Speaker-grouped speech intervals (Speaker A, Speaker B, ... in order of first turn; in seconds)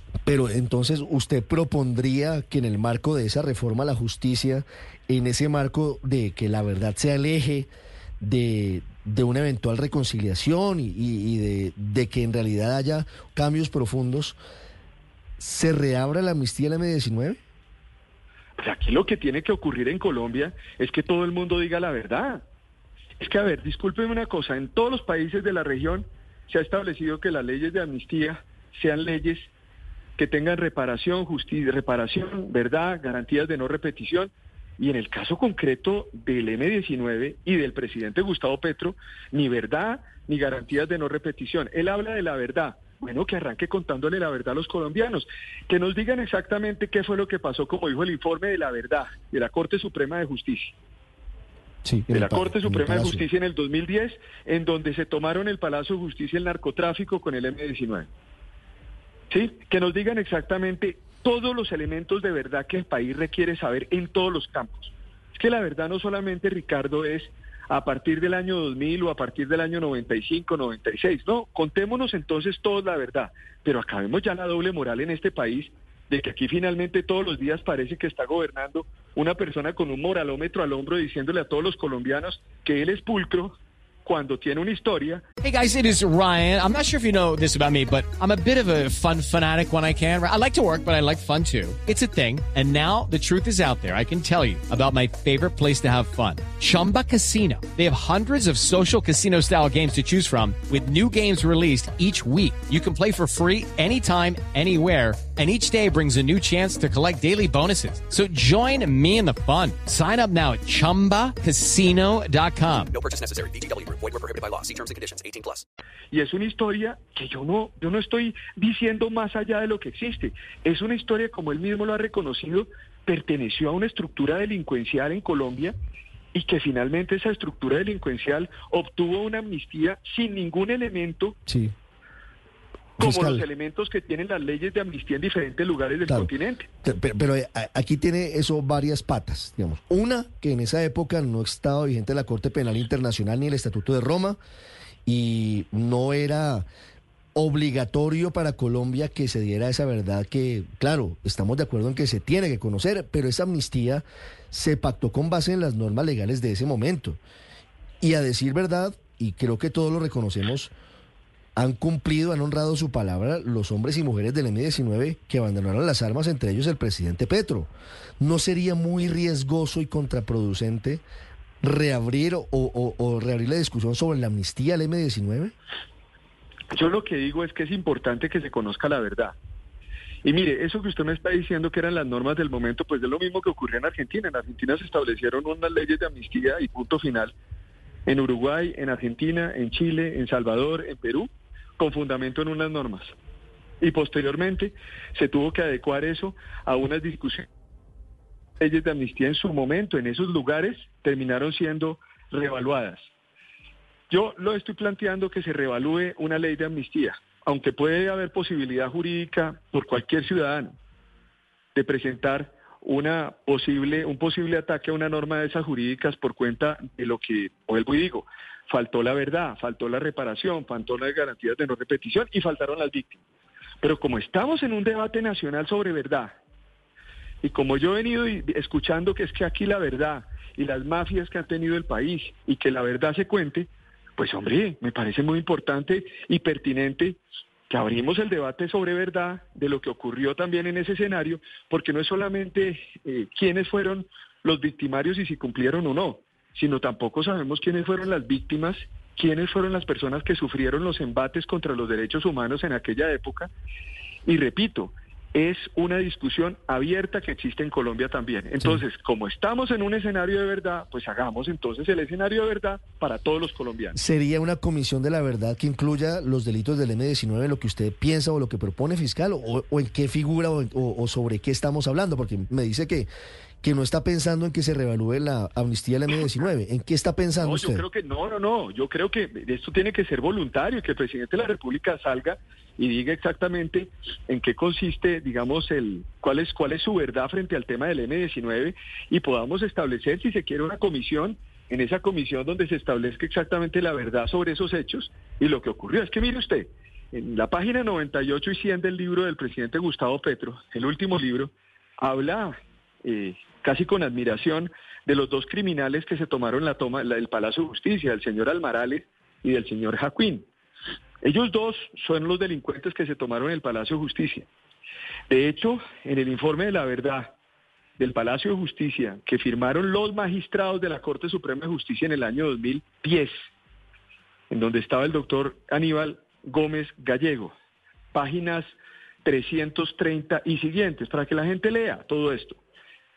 Speaker A: 0.2-14.3, 15.4-17.4, 51.8-53.2, 131.5-131.7, 133.0-133.4, 136.8-144.4, 145.1-146.7, 147.3-157.2, 158.0-160.7, 161.6-171.0, 171.6-175.5, 263.9-273.1, 273.6-277.8
Speaker B: 18.6-22.4, 23.2-29.5, 30.2-50.7, 52.1-58.1, 59.3-85.2, 116.1-125.7, 126.3-131.4, 133.0-136.7, 176.7-179.3, 180.2-187.3, 188.1-193.1, 193.8-197.5, 198.6-203.1, 204.1-210.7, 211.7-223.2, 223.8-226.4, 227.4-253.5, 254.2-264.0, 277.4-310.5, 311.2-314.5, 315.3-317.3, 318.0-323.3, 324.5-327.5, 328.1-332.6
Speaker C: 85.4-112.9
Speaker D: 112.9-115.6